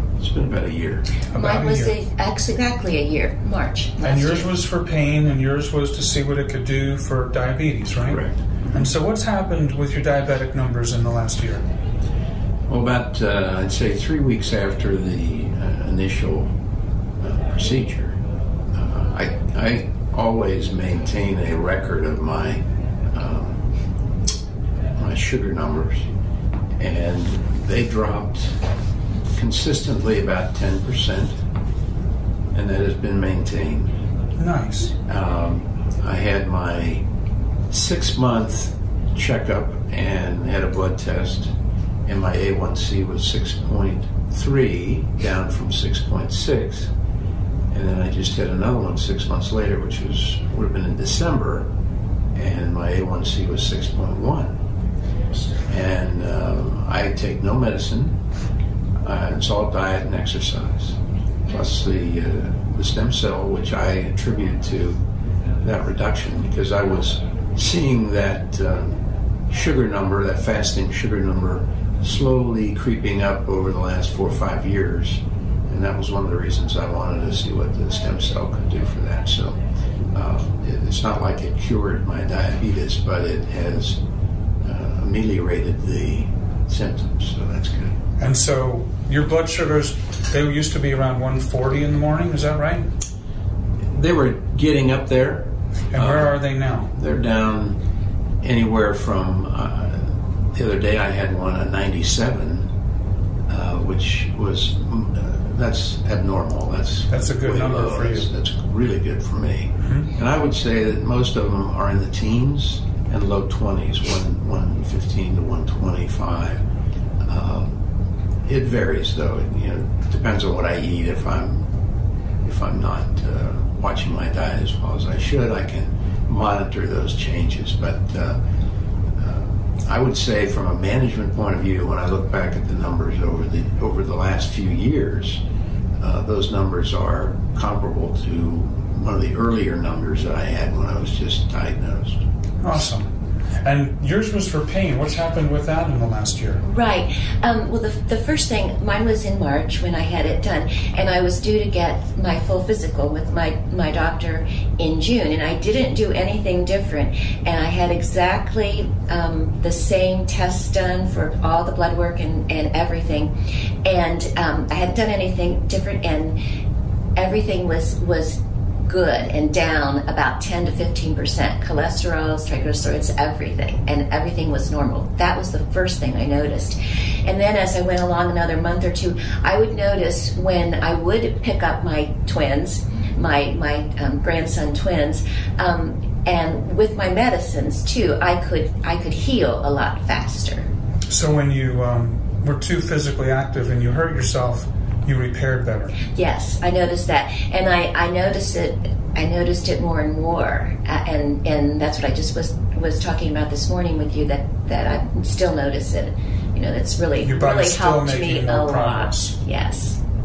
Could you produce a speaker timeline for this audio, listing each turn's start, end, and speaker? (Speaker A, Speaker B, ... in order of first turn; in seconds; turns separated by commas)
Speaker A: 0.2-1.1, Speaker B: 1.3-1.9, Speaker C: 1.3-4.5, Speaker B: 4.0-11.6, Speaker A: 8.0-8.4, Speaker A: 12.7-16.5, Speaker A: 17.2-18.2, Speaker A: 18.7-22.6, Speaker A: 23.1-23.6, Speaker A: 24.9-26.0, Speaker A: 26.8-28.6, Speaker A: 29.3-31.3, Speaker A: 32.5-33.9, Speaker B: 34.4-34.9, Speaker A: 35.1-37.0, Speaker A: 37.7-41.5, Speaker A: 42.0-46.9, Speaker A: 47.7-51.7, Speaker A: 52.3-54.5, Speaker A: 55.7-58.1, Speaker A: 59.0-65.0, Speaker A: 65.6-68.9, Speaker A: 69.5-79.5, Speaker A: 80.1-84.0, Speaker A: 84.6-88.0, Speaker B: 88.2-92.9, Speaker A: 93.9-97.8, Speaker B: 95.9-96.9, Speaker A: 98.4-102.7, Speaker A: 103.5-116.6, Speaker B: 107.1-108.3, Speaker B: 109.8-110.1, Speaker A: 117.2-117.7, Speaker A: 118.5-121.7, Speaker A: 122.4-128.4, Speaker A: 129.2-135.4, Speaker A: 136.0-142.2, Speaker B: 142.6-143.1, Speaker B: 143.6-146.6, Speaker C: 146.6-163.3, Speaker C: 163.8-166.4, Speaker C: 167.2-190.7, Speaker B: 191.1-195.9, Speaker C: 196.1-210.0, Speaker B: 207.2-209.4